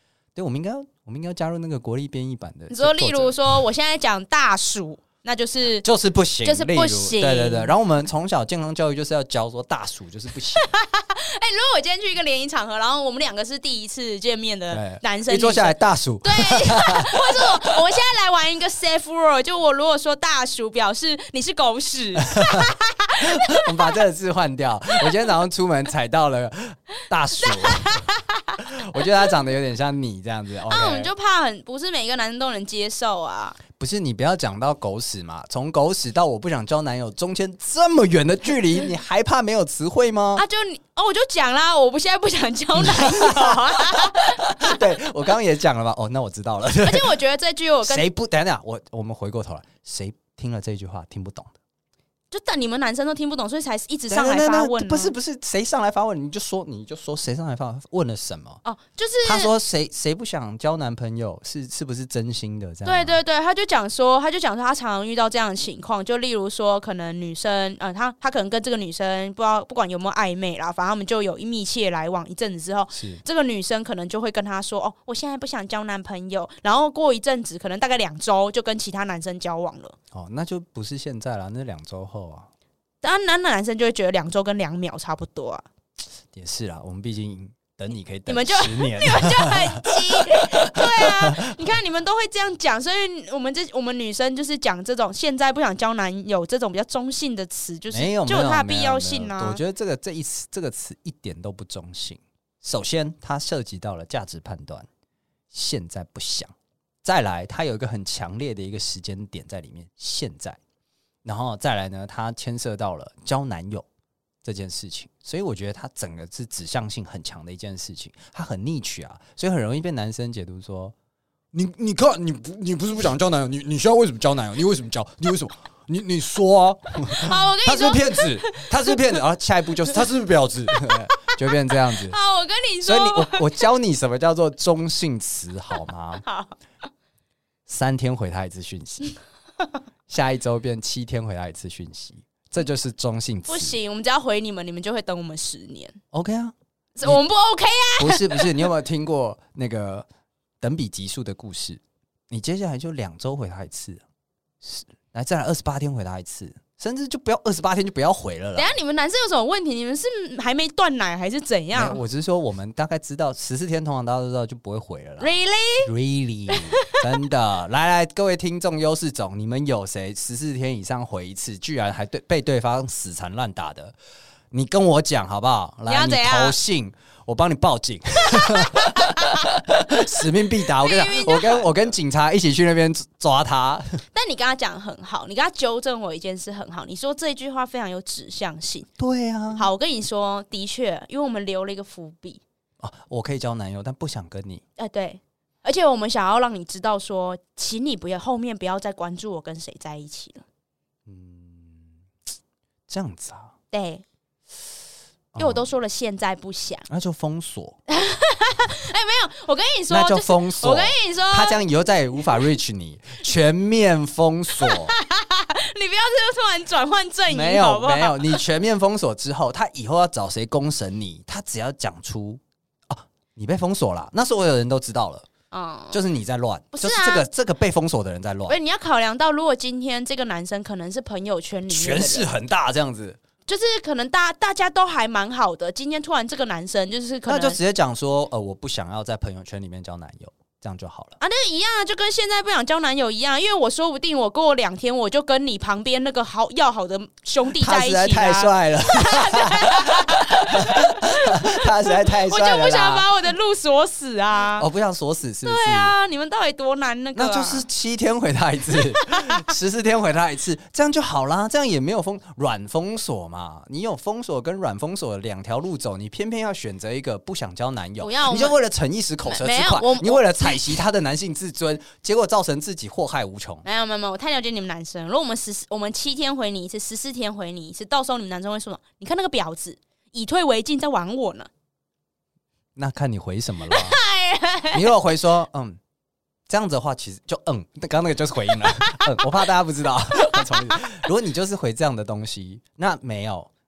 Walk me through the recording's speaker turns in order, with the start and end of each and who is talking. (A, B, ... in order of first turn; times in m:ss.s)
0:00.3-0:03.6 A
0:02.7-0:05.8 B
0:05.8-0:10.6 A
0:06.4-0:07.7 B
0:10.6-0:23.7 B
0:14.7-0:17.5 A
0:22.3-0:22.7 A
0:23.2-0:28.0 A
0:27.4-0:28.4 B
0:28.6-0:31.1 A
0:30.7-0:33.6 B
0:33.8-0:40.4 A
0:40.4-0:44.8 B
0:42.8-0:47.2 A
0:46.8-0:48.0 B
0:47.8-0:51.5 A
0:52.3-0:55.1 B
0:54.1-0:58.6 A
0:58.6-0:59.5 B
0:59.2-1:03.2 A
1:02.8-1:20.0 B
1:12.9-1:13.2 A
1:20.1-1:22.5 A
1:23.0-1:25.6 B
1:26.3-1:31.5 A
1:28.3-1:39.6 B
1:37.9-1:44.9 A
1:45.5-1:46.5 A
1:47.0-1:50.6 A
1:51.2-1:53.8 A
1:54.4-2:00.9 A
2:01.5-2:12.2 A
2:07.1-2:08.9 B
2:11.9-2:13.4 B
2:12.8-2:16.2 A
2:16.2-2:16.5 B
2:17.7-2:19.1 A
2:20.1-2:23.8 A
2:23.5-2:26.0 B
2:26.1-2:27.2 A
2:27.0-2:28.7 B
2:28.0-2:30.0 A
2:30.6-2:34.0 A
2:34.6-2:38.7 A
2:38.6-2:42.0 B
2:41.7-2:53.9 A
2:45.2-2:45.9 B
2:46.5-2:46.9 B
2:54.5-3:04.0 A
2:55.9-2:56.6 B
2:58.8-2:59.2 B
3:00.7-3:01.7 B
3:04.1-3:08.9 B
3:09.0-3:09.7 A
3:09.5-3:12.4 B
3:12.8-3:14.6 A
3:14.8-3:20.4 B
3:21.1-3:22.0 A
3:22.9-3:23.5 A
3:23.7-3:24.0 B
3:25.3-3:25.7 A
3:25.4-3:26.8 B
3:26.9-3:27.8 A
3:27.9-3:31.6 B
3:29.9-3:34.9 A
3:34.6-3:38.4 B
3:37.3-3:45.3 A
3:45.5-3:46.0 B
3:45.9-3:48.6 A
3:46.7-3:47.2 B
3:48.5-3:52.3 B
3:51.7-3:53.2 A
3:53.5-3:57.6 B
3:57.3-4:01.2 A
4:01.2-4:14.7 B
4:07.6-4:13.1 A
4:14.6-4:15.9 A
4:15.4-4:17.7 B
4:17.1-4:33.6 A
4:18.7-4:19.2 B
4:28.0-4:28.6 B
4:29.3-4:30.8 B
4:33.6-4:41.5 B
4:42.8-4:44.0 A
4:43.7-4:44.8 B
4:44.7-4:45.8 A
4:46.5-4:53.5 A